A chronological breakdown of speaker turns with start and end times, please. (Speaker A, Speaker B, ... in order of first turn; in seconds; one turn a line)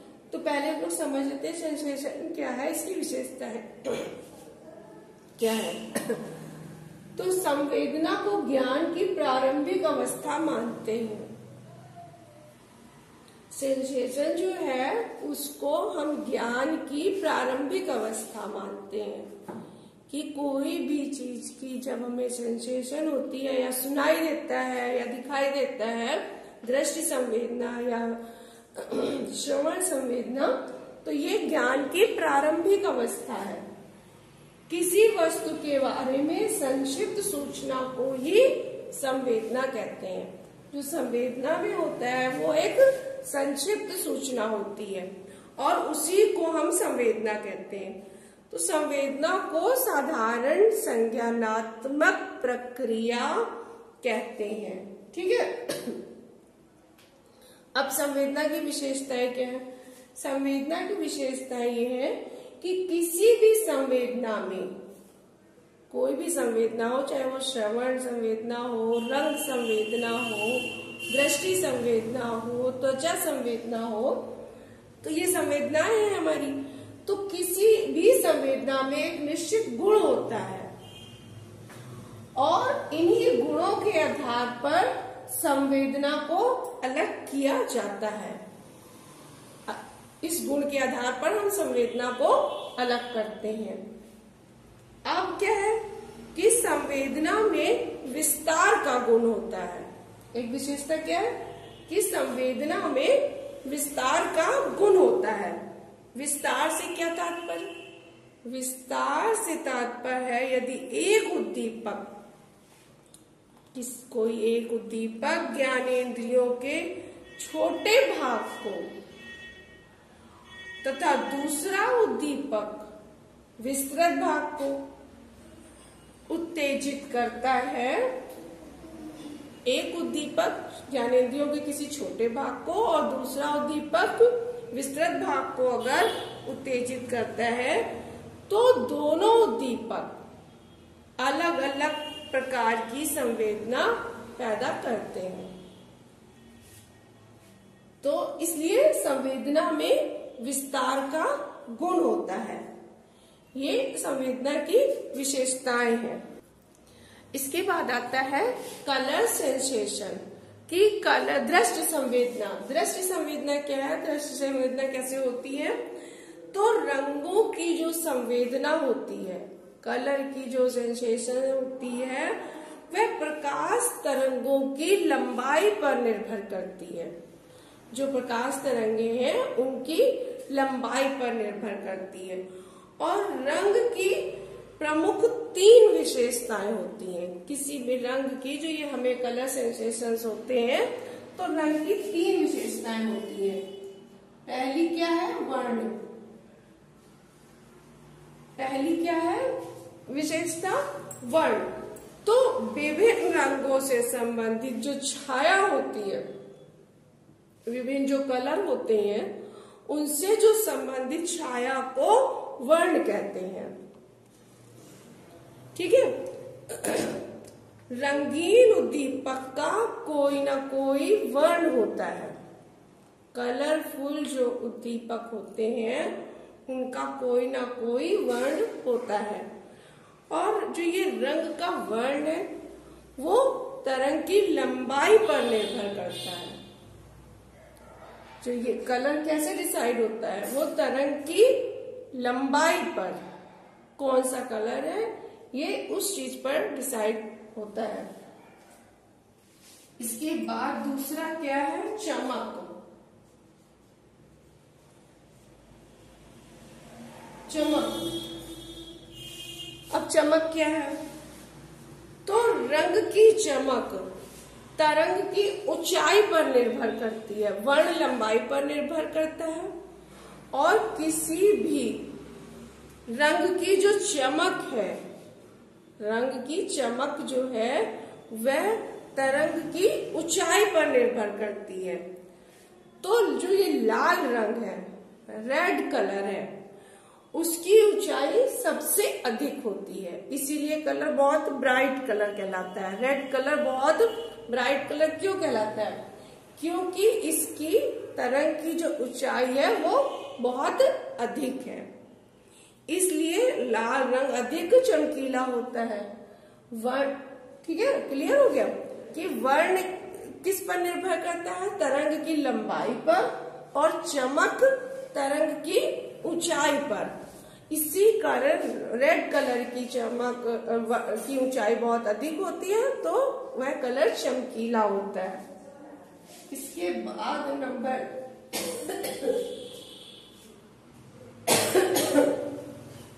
Speaker A: 0.3-4.1
Speaker A: 5.4-6.2
Speaker A: 7.2-11.3
Speaker A: 13.5-19.3
Speaker A: 20.1-28.2
Speaker A: 28.7-33.6
Speaker A: 34.7-48.0
Speaker A: 48.5-53.5
Speaker A: 54.0-56.0
Speaker A: 57.7-64.7
Speaker A: 65.9-74.3
Speaker A: 75.0-80.7
Speaker A: 82.3-88.4
Speaker A: 89.7-93.8
Speaker A: 95.0-95.8
Speaker A: 96.3-105.6
Speaker A: 106.1-107.7
Speaker A: 108.4-112.1
Speaker A: 113.7-118.9
Speaker A: 120.8-122.9
Speaker A: 123.6-124.8
Speaker A: 126.3-128.1
Speaker A: 129.7-137.9
Speaker A: 138.5-140.2
Speaker A: 141.2-145.5
Speaker A: 148.0-152.6
Speaker A: 153.5-156.2
Speaker A: 157.3-165.8
Speaker A: 166.5-177.1
Speaker A: 177.9-182.4
Speaker A: 183.0-193.7
Speaker A: 194.4-195.9
Speaker A: 198.6-199.5
Speaker A: 200.1-201.7
Speaker A: 202.2-206.3
Speaker A: 207.7-209.3
Speaker A: 209.8-213.7
Speaker A: 215.7-217.2
Speaker A: 217.9-222.3
Speaker A: 223.3-229.5
Speaker A: 230.3-232.5
Speaker A: 233.2-236.6
Speaker A: 238.4-243.2
Speaker A: 244.0-248.1
Speaker A: 250.0-252.7
Speaker A: 257.5-258.2
Speaker A: 259.9-261.0
Speaker A: 262.2-264.1
Speaker A: 264.8-269.7
Speaker A: 270.5-272.1
Speaker A: 273.1-275.0
Speaker A: 276.0-282.0
Speaker A: 283.0-286.5
Speaker A: 287.3-296.0
Speaker A: 296.6-301.9
Speaker A: 302.9-306.1
Speaker A: 306.7-317.1
Speaker A: 317.7-325.4
Speaker A: 326.5-329.4
Speaker A: 331.5-332.3